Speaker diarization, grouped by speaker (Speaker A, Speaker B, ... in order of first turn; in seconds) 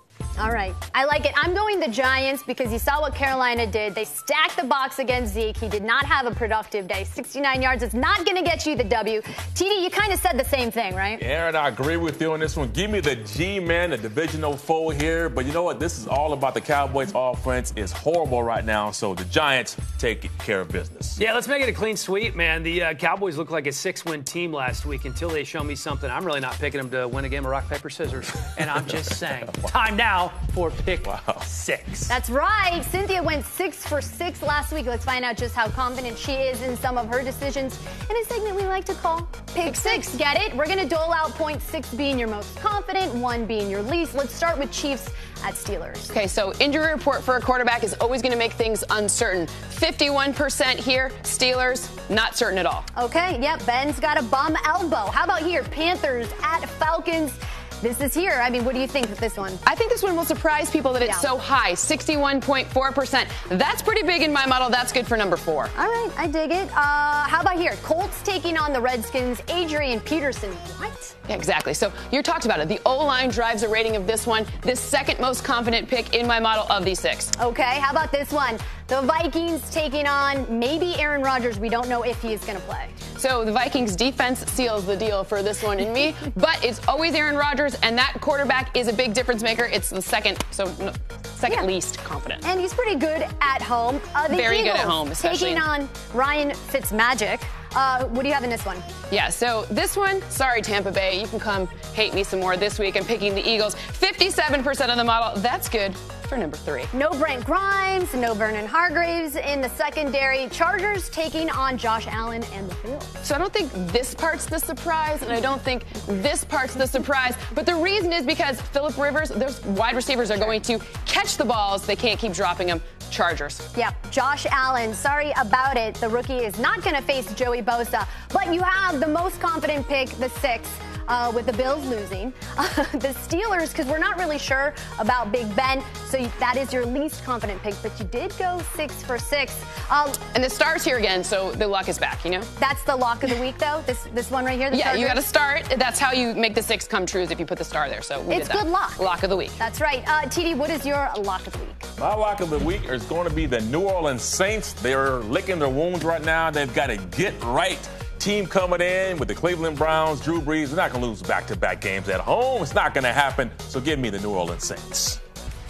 Speaker A: 0.4-11.2, 32.1-46.1, 52.9-59.6, 61.0-61.3, 65.7-71.1, 77.4-82.9, 92.4-98.8, 106.9-113.1, 123.7-140.2, 142.6-145.2, 148.3-149.0, 149.6-151.9
Speaker B: 11.2-21.2, 31.0-31.4, 152.0-165.2
Speaker C: 21.1-32.2
Speaker D: 39.6-40.1, 46.1-52.9, 59.6-65.7, 71.3-77.3, 83.2-92.4, 94.3-95.7, 99.1-106.9, 113.2-123.7, 140.3-142.5, 144.7-149.6